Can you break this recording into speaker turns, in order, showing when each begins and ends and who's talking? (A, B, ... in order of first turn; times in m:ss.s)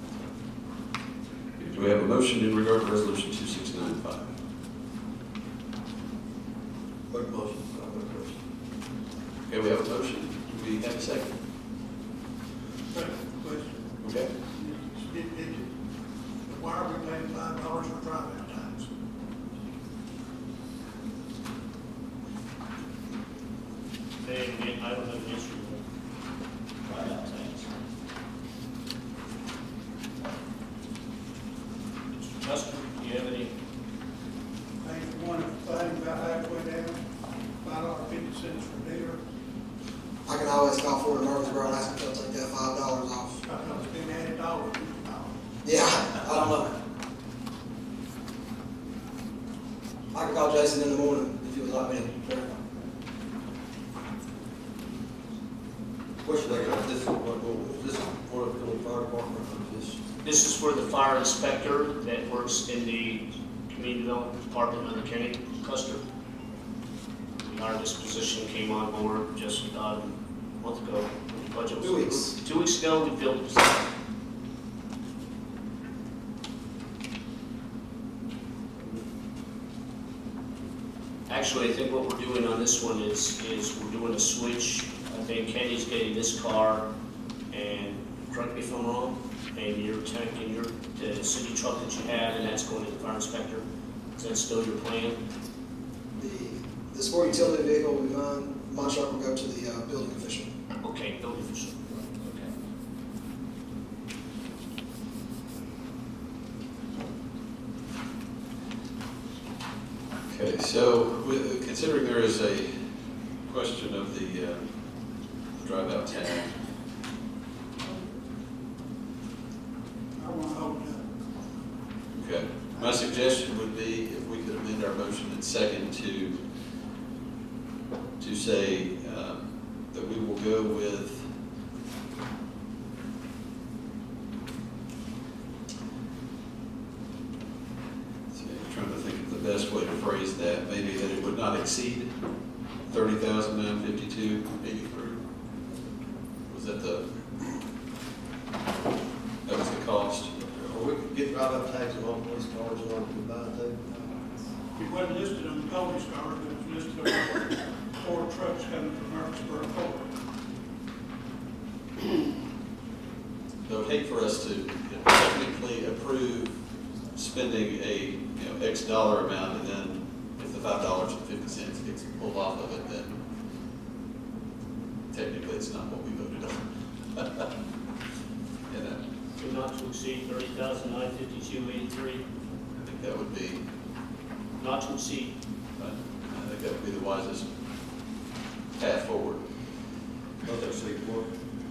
0:01.6-0:04.3 A
0:07.1-0:08.4 B
0:09.5-0:11.4 A
0:12.9-0:13.9 C
0:14.0-0:14.3 A
0:14.6-0:15.7 C
0:16.5-0:18.9 C
0:24.2-0:25.8 D
0:26.8-0:27.7 D
0:32.2-0:33.5 D
0:34.8-0:37.0 C
0:37.6-0:39.2 C
0:40.3-0:43.4 E
0:43.4-0:45.3 C
0:45.6-0:46.8 E
0:50.1-0:52.5 E
0:56.2-1:00.0 B
1:00.2-1:06.0 D
1:07.4-1:13.8 D
1:11.8-1:12.3 E
1:21.3-1:26.8 D
1:27.5-1:33.6 D
1:34.2-1:35.2 D
1:36.2-1:40.5 E
1:40.8-1:42.5 D
1:50.3-1:52.8 A
1:53.5-1:54.6 A
1:55.6-1:56.5 A
2:00.2-2:01.0 C
2:02.1-2:06.4 A
2:08.2-2:11.3 A
2:18.3-2:22.1 A
2:22.9-2:25.2 A
2:26.5-2:27.1 A
2:29.5-2:30.3 A
2:30.4-2:34.0 B
2:34.8-2:40.1 C
2:43.7-2:46.6 A
2:47.2-2:53.2 A
2:55.1-2:57.5 A
2:58.7-2:59.0 A
2:59.4-3:02.2 D
3:02.8-3:03.6 A
3:04.6-3:05.4 D
3:05.8-3:07.5 A
3:08.8-3:09.4 A
3:10.4-3:11.3 B